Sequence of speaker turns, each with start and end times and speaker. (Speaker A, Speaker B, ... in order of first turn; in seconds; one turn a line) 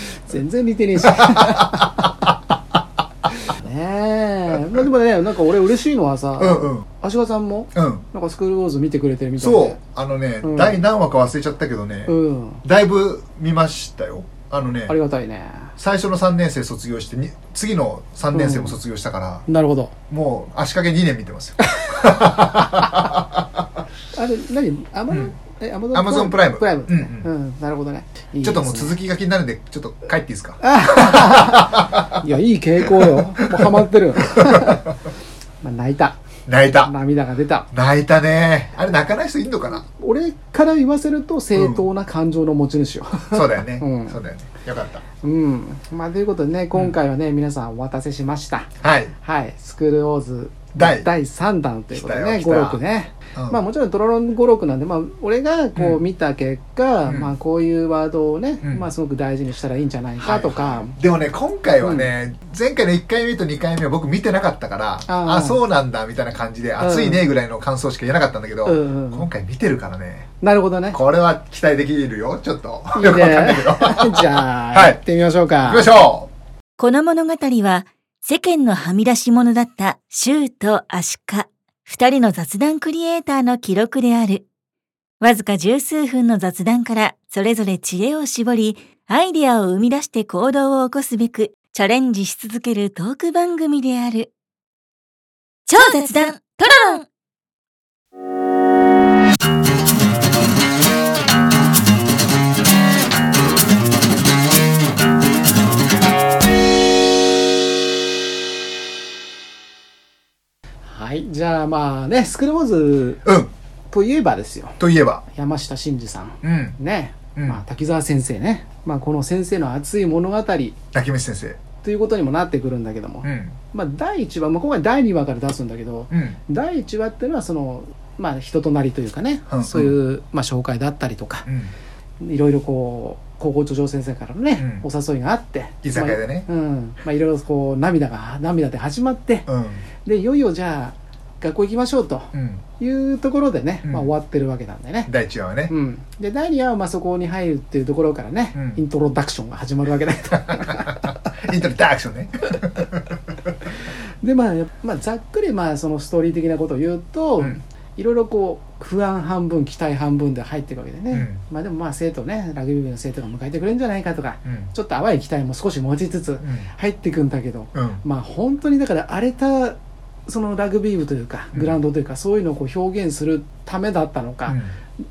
Speaker A: 0.2-2.2
Speaker B: 1.0-2.1
Speaker A: 3.4-9.8
Speaker B: 6.4-6.8
Speaker B: 7.7-8.1
Speaker B: 9.4-14.9
Speaker A: 10.4-10.8
Speaker A: 12.1-12.6
Speaker A: 14.9-15.7
Speaker B: 15.8-19.4
Speaker A: 18.3-18.8
Speaker A: 19.5-19.9
Speaker B: 20.1-23.6
Speaker A: 21.6-22.8
Speaker A: 24.1-29.0
Speaker B: 25.9-27.3
Speaker B: 28.4-32.2
Speaker A: 30.6-35.0
Speaker B: 32.8-34.9
Speaker A: 35.6-36.2
Speaker B: 36.5-36.9
Speaker A: 36.8-37.7
Speaker B: 37.7-39.8
Speaker A: 39.7-44.1
Speaker B: 41.5-41.9
Speaker B: 43.3-45.0
Speaker A: 45.2-61.0
Speaker B: 48.8-49.1
Speaker B: 50.7-51.1
Speaker B: 51.9-52.8
Speaker B: 53.3-53.6
Speaker B: 55.8-56.0
Speaker B: 57.0-57.3
Speaker B: 60.2-70.3
Speaker A: 61.8-62.1
Speaker A: 65.1-65.6
Speaker A: 66.8-67.2
Speaker A: 68.6-69.2
Speaker A: 70.4-71.0
Speaker B: 70.9-75.0
Speaker A: 72.9-75.9
Speaker B: 75.6-76.3
Speaker C: 76.8-84.4
Speaker C: 85.2-94.3
Speaker C: 95.7-97.0
Speaker A: 110.8-113.2
Speaker B: 113.2-113.5
Speaker A: 113.9-114.8
Speaker B: 114.8-115.2
Speaker A: 115.3-120.8
Speaker B: 116.4-116.8
Speaker B: 117.3-117.6
Speaker B: 120.9-121.6
Speaker A: 121.8-131.5
Speaker B: 123.2-123.6
Speaker B: 126.1-126.4
Speaker B: 129.5-129.9
Speaker B: 131.4-131.7
Speaker A: 132.2-139.5
Speaker B: 134.6-134.8
Speaker B: 135.8-136.5
Speaker B: 139.5-139.9
Speaker A: 140.0-145.1
Speaker B: 142.3-142.6
Speaker B: 143.8-144.1
Speaker B: 145.1-145.7
Speaker A: 145.7-151.2
Speaker B: 148.5-148.8
Speaker B: 150.3-153.2
Speaker A: 154.2-174.6
Speaker B: 161.1-161.4
Speaker B: 164.4-164.7
Speaker B: 166.4-166.7
Speaker B: 167.7-168.0
Speaker B: 171.5-171.8
Speaker B: 174.4-174.7